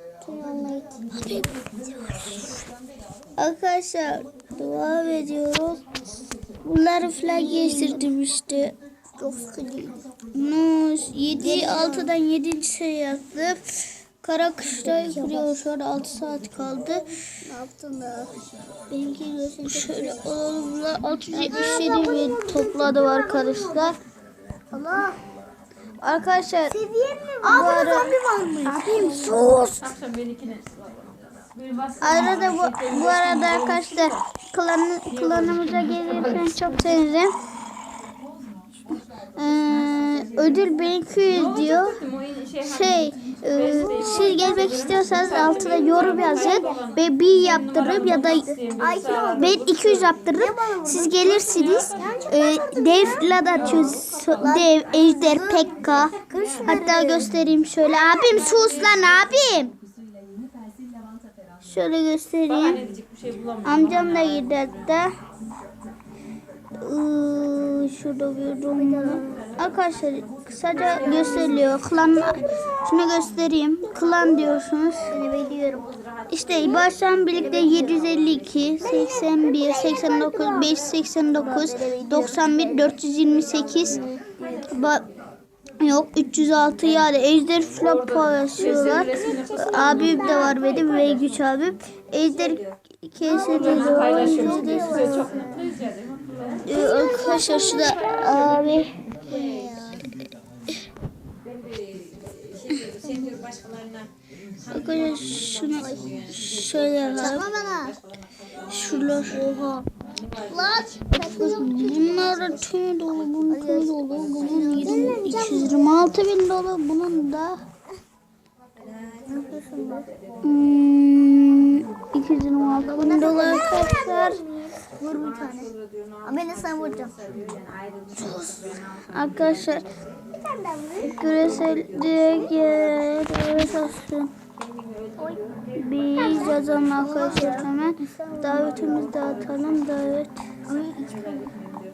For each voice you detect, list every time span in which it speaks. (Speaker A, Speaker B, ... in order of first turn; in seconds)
Speaker A: 0.2-1.5, 7.3-8.1, 9.2-10.0, 11.4-12.2, 14.9-15.6, 17.4-18.3, 18.9-20.2, 21.3-23.9, 24.7-25.2, 26.7-29.4, 43.8-46.8, 48.7-49.6, 50.3-57.3, 57.8-59.4, 68.8-69.5, 72.2-72.5, 75.1-75.9, 77.4-78.1, 78.8-80.9, 81.4-83.0, 83.8-84.6, 89.1-89.4, 90.0-90.9, 93.2-95.8, 96.7-98.1, 99.2-100.1, 105.8-106.2, 107.1-108.0, 109.3-109.9, 110.5-112.4, 113.5-116.1, 119.3-120.1, 122.8-127.1, 130.3-131.5, 135.2-135.4, 136.2-139.5, 140.7-141.5
Speaker B: 1.2-1.5, 2.0-2.6, 3.4-5.8, 6.6-8.8, 10.3-17.1, 19.6-24.0, 26.0-26.8, 27.4-29.9, 32.0-37.3, 39.4-42.0, 42.6-48.5, 49.3-56.1, 56.6-59.7, 61.6-62.8, 63.6-65.1, 66.8-75.2, 76.3-84.0, 84.6-85.1, 85.8-95.3, 96.6-98.9, 104.7-107.5, 108.7-109.5, 111.2-117.6, 120.4-124.4, 128.2-129.9, 131.0-134.3, 135.8-140.4
Speaker C: 29.8-34.1, 35.1-36.7, 41.3-43.0, 43.5-46.9, 47.4-50.1, 51.3-52.2, 53.5-54.5, 62.5-64.5, 70.8-71.8, 87.8-91.2, 93.5-96.7, 97.7-98.8, 102.8-103.3, 126.8-127.7